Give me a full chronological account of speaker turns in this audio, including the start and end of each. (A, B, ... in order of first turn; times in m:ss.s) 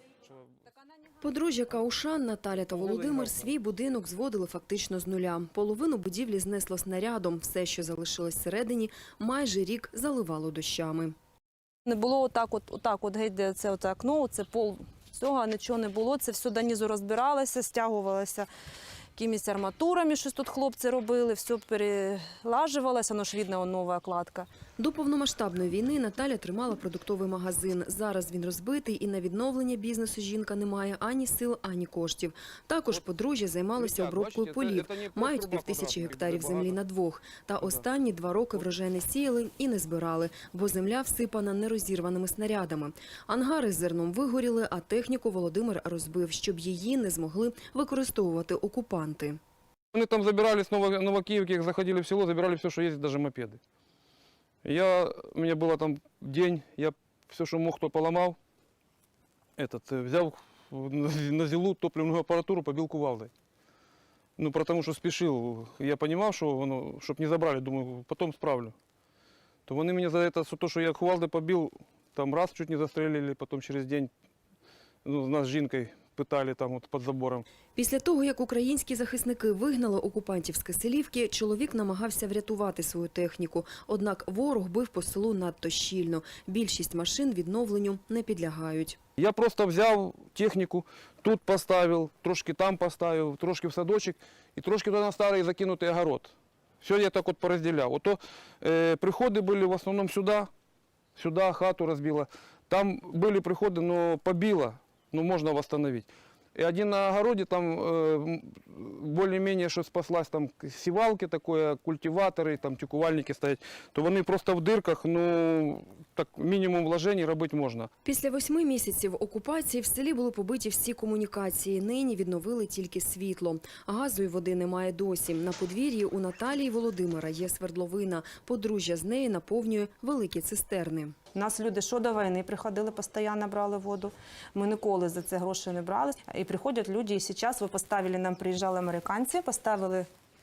0:01.2-0:11.1 A
0:02.8-0:03.5 B
0:11.8-0:18.5 C
0:19.2-0:24.5 C
0:24.8-0:49.4 A
0:33.8-0:36.8 B
0:49.9-0:53.6 B
0:54.6-0:58.4 B
0:59.6-1:03.3 B
1:04.4-1:08.7 B
1:09.6-1:14.1 B
1:15.0-1:17.4 B
1:17.8-1:29.0 A
1:29.2-1:40.5 B
1:41.2-1:57.9 B
1:58.0-2:11.1 A
2:11.3-2:20.1 C